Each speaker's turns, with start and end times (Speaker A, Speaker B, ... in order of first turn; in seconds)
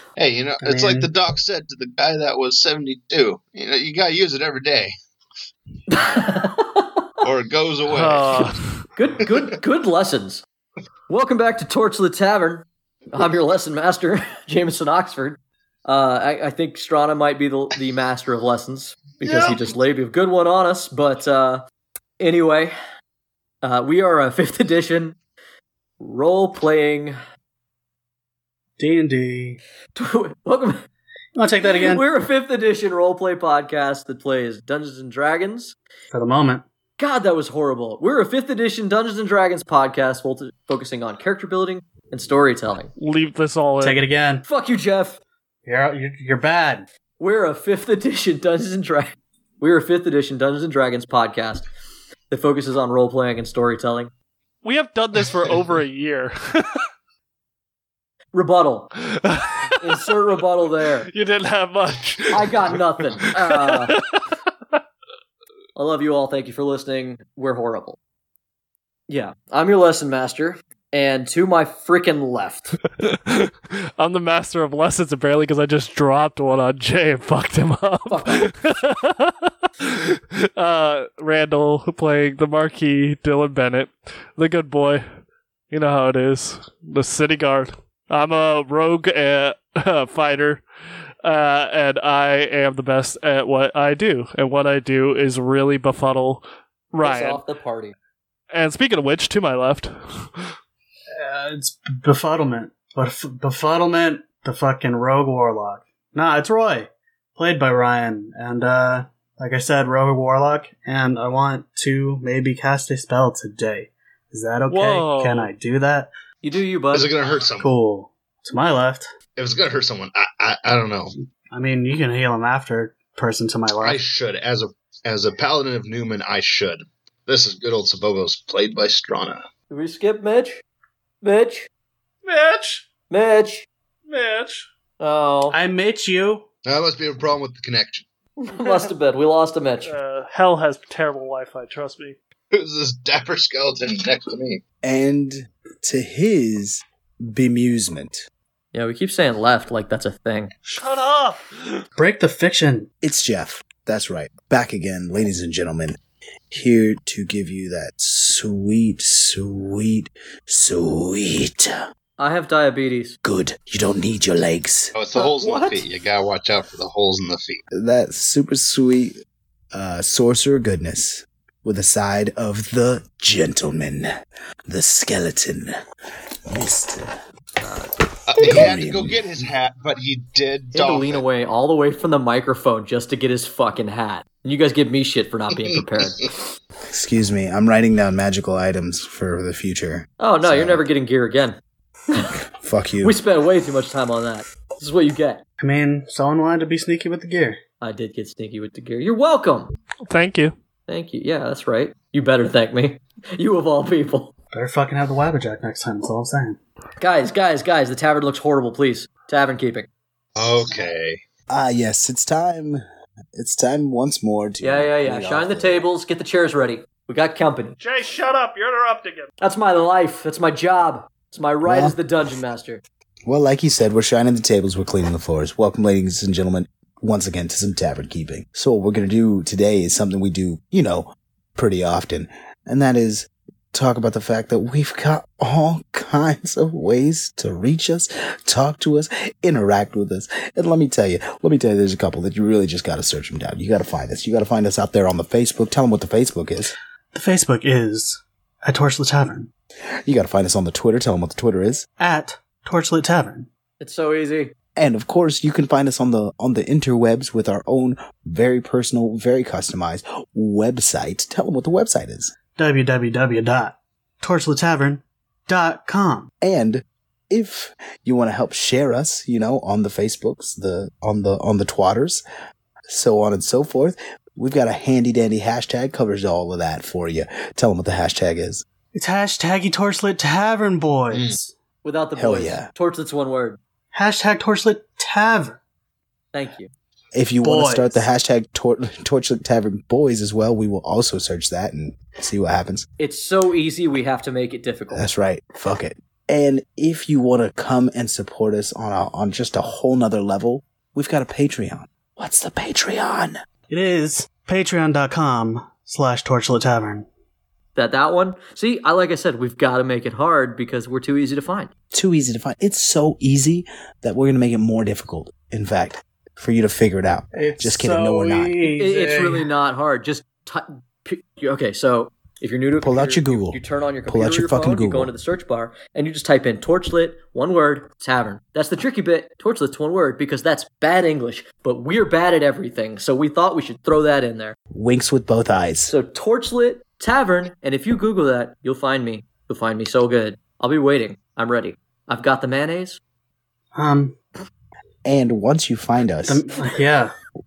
Speaker A: 0.2-4.9, 7.2-8.6, 19.2-19.7, 116.9-117.7, 119.4-121.1, 123.8-129.4, 136.7-138.1, 142.5-144.6, 164.9-167.6, 178.3-181.2, 210.4-211.2, 281.1-281.4
Speaker B: 0.6-1.1, 28.8-29.6, 31.4-32.0, 36.1-36.6, 43.8-44.5, 45.7-46.9, 101.2-116.1, 117.6-119.1, 121.5-124.0, 135.5-136.5, 152.0-152.9, 195.6-197.6, 204.5-206.6, 247.1-249.5, 252.0-253.5, 262.6-266.3, 278.9-281.5, 283.9-285.6, 287.4-288.1, 303.7-307.1, 317.3-319.5, 343.8-344.2, 346.3-347.1
Speaker C: 5.9-7.0, 9.0-10.4, 11.1-21.6, 22.2-22.8, 23.6-25.2, 26.0-27.2, 29.9-30.8, 31.7-35.8, 37.0-42.9, 44.5-45.2, 47.2-51.6, 52.3-54.1, 58.3-58.9, 59.8-61.1, 62.3-64.0, 65.8-68.0, 69.1-72.7, 78.1-78.5, 97.0-98.0, 116.4-117.1, 129.7-130.6, 131.2-131.7, 133.1-133.7, 135.0-135.6, 138.4-139.9, 148.7-150.5, 162.2-163.2, 165.1-165.8, 177.6-177.9, 180.7-186.3, 190.2-191.6, 193.0-195.4, 197.8-199.7, 200.9-204.3, 207.0-209.9, 214.6-217.8, 219.4-222.8, 253.8-254.5, 281.8-283.6, 286.3-286.7, 293.0-295.1, 307.8-311.7, 318.8-334.6, 335.9-343.0
Speaker D: 7.9-8.8, 43.0-44.0, 54.6-56.8, 59.1-59.7, 61.1-64.8, 73.0-85.0, 85.7-90.6, 91.2-97.4, 98.5-100.5, 114.7-115.5, 132.2-132.9, 134.1-134.7, 139.8-142.2, 150.7-151.8, 200.1-200.5, 217.8-219.3
Speaker E: 144.8-148.3, 153.0-156.0, 156.5-161.9, 163.2-164.9, 167.7-169.2, 169.7-175.7, 176.5-177.1, 178.4-179.2, 186.9-190.8, 192.6-193.2, 211.5-212.8, 213.3-215.9, 221.6-222.0, 223.3-246.7, 250.1-251.9, 254.8-262.3, 266.4-272.2, 272.9-278.6, 282.2-282.7, 287.1-292.9, 294.9-303.4, 311.9-318.6, 322.8-325.1, 334.7-335.9, 345.1-346.4